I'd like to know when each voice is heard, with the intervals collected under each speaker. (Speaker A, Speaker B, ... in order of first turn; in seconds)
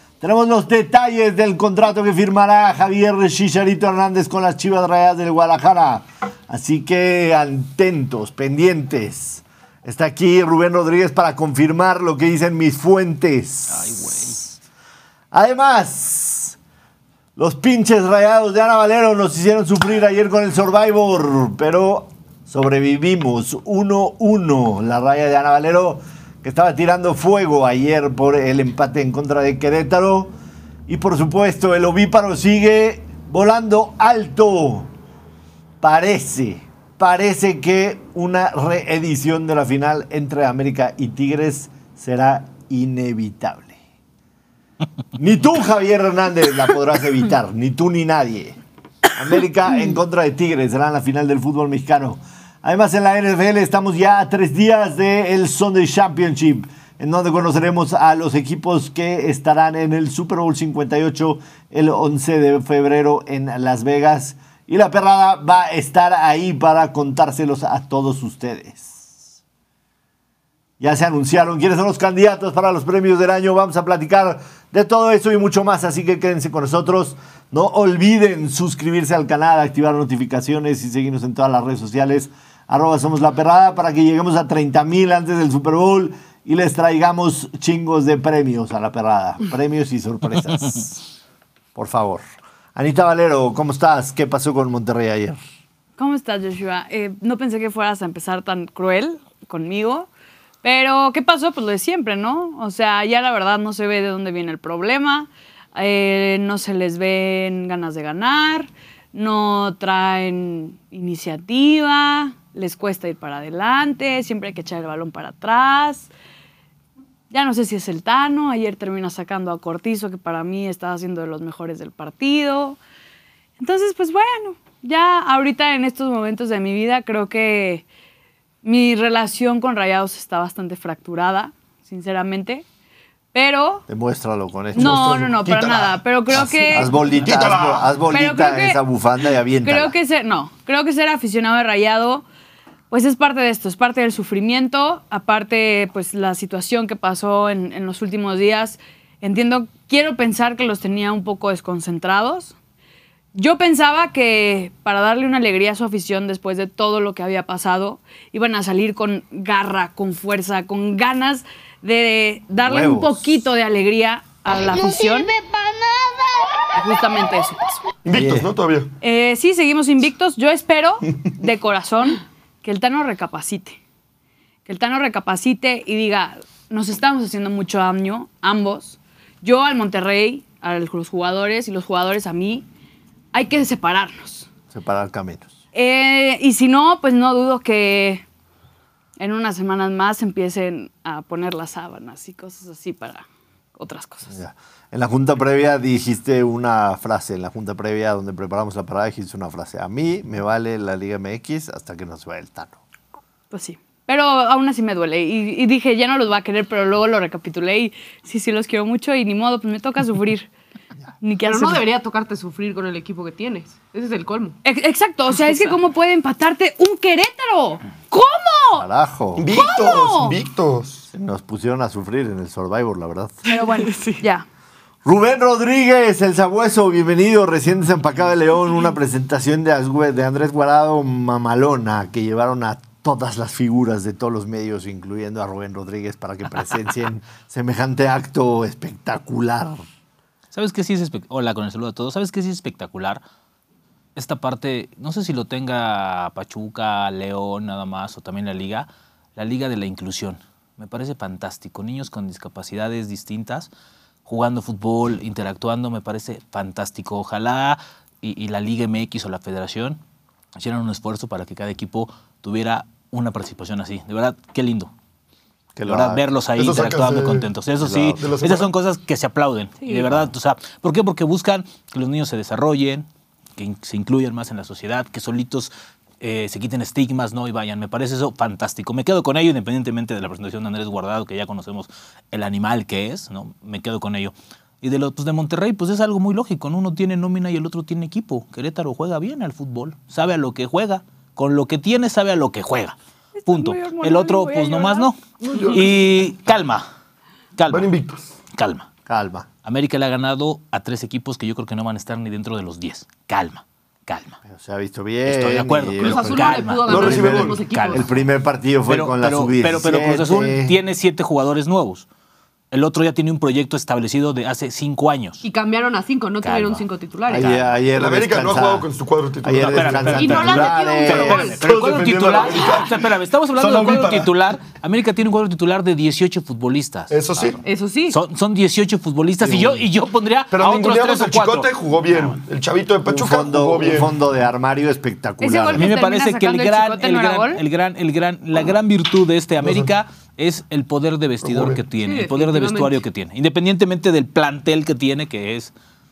Speaker A: 0.2-14.4, 15.3-16.6, 17.4-30.3, 30.9-34.9, 35.8-43.8, 45.1-48.6, 49.1-69.3, 70.8-91.0, 91.8-92.2, 92.8-95.4, 133.9-135.0, 136.3-139.9, 162.6-163.3, 168.1-168.5, 184.7-185.5, 194.3-202.8, 218.8-219.5, 221.1-223.4, 225.1-239.9, 265.8-266.2, 267.8-268.2, 299.1-299.5, 304.4-310.8, 317.3-318.9, 319.4-321.5, 333.0-335.9
Speaker B: 13.7-14.5, 240.5-243.2, 244.2-253.7, 254.3-260.0, 260.6-264.9, 265.9-292.9, 293.5-296.9, 297.6-297.9, 298.5-298.9, 299.6-304.4, 305.2-308.1, 308.9-312.1, 312.7-315.4, 316.4-317.6, 319.6-332.4, 335.8-345.7
Speaker C: 96.0-100.1, 100.6-116.1, 117.3-122.8, 123.6-127.8, 128.6-132.7, 133.3-133.8, 134.8-137.0, 138.1-138.8, 139.6-142.2, 142.9-152.6, 153.3-165.4, 166.7-167.8, 169.0-173.8, 174.7-182.7, 183.3-184.5, 185.7-188.2, 189.2-193.2, 193.8-194.3, 203.5-210.5, 211.2-211.8, 214.6-218.9, 219.5-220.4, 223.5-224.4, 293.4-295.7, 335.4-337.6
Speaker D: 134.8-136.0, 137.1-137.9, 168.1-168.9, 219.4-221.1, 266.6-267.5, 268.1-268.7, 295.4-296.0, 297.7-298.3, 306.9-307.6, 317.9-320.2, 321.6-324.3, 327.1-327.6, 329.4-329.8, 330.5-334.1, 339.6-339.9, 341.4-341.8
Speaker E: 211.4-214.6, 223.5-224.2, 306.0-308.2, 315.4-317.7, 320.1-321.6, 327.6-328.2, 342.0-343.0